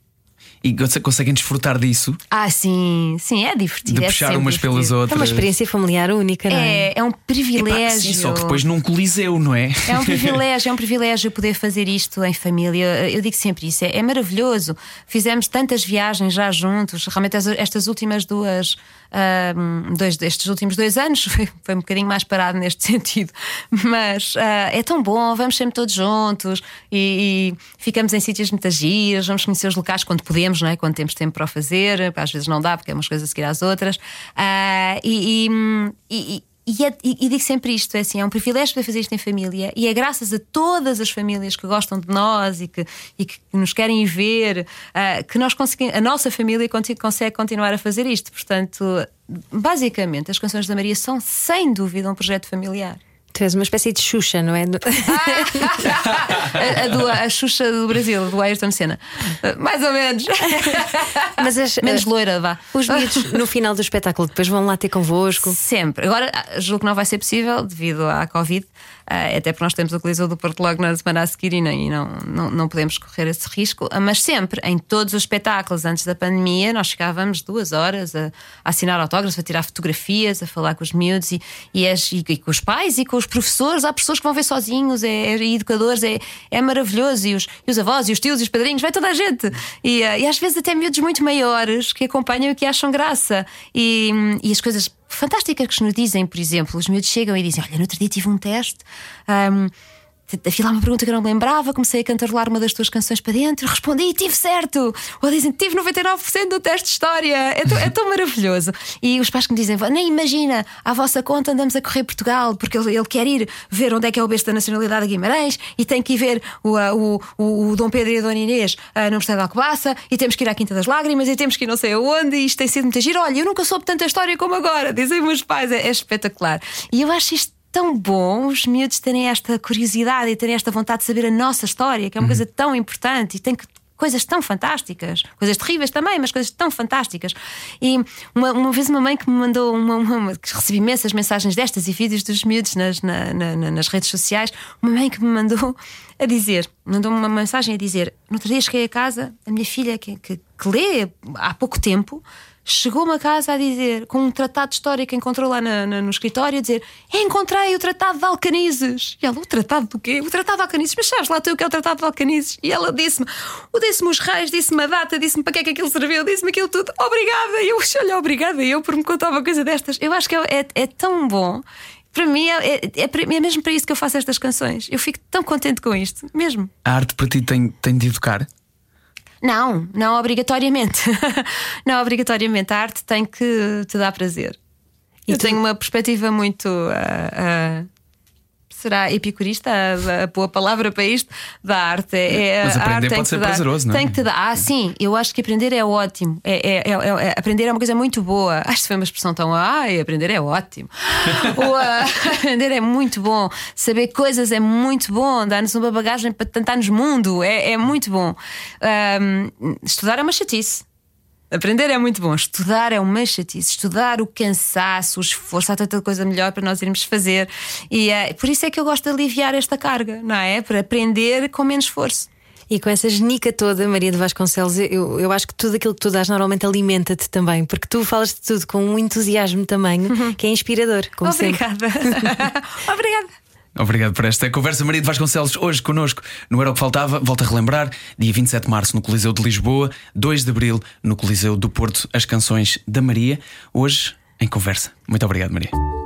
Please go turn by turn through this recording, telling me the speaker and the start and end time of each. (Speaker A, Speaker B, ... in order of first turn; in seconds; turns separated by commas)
Speaker A: 0.6-2.2, Speaker B: 2.3-5.0, Speaker A: 3.9-5.5, Speaker C: 5.1-6.9, Speaker B: 6.5-8.6, Speaker A: 7.6-10.4, Speaker B: 9.8-53.0, Speaker C: 53.3-55.9, Speaker B: 55.1-63.4, Speaker C: 61.4-62.0, Speaker C: 62.7-65.6, Speaker B: 65.4-99.7, Speaker B: 100.3-176.7, Speaker A: 176.8-178.5, Speaker B: 179.4-184.6, Speaker C: 185.3-185.6, Speaker B: 185.3-187.9, Speaker B: 188.7-210.8, Speaker A: 192.6-194.1, Speaker B: 211.5-222.3, Speaker C: 222.7-231.6, Speaker B: 231.2-233.3, Speaker A: 233.8-245.7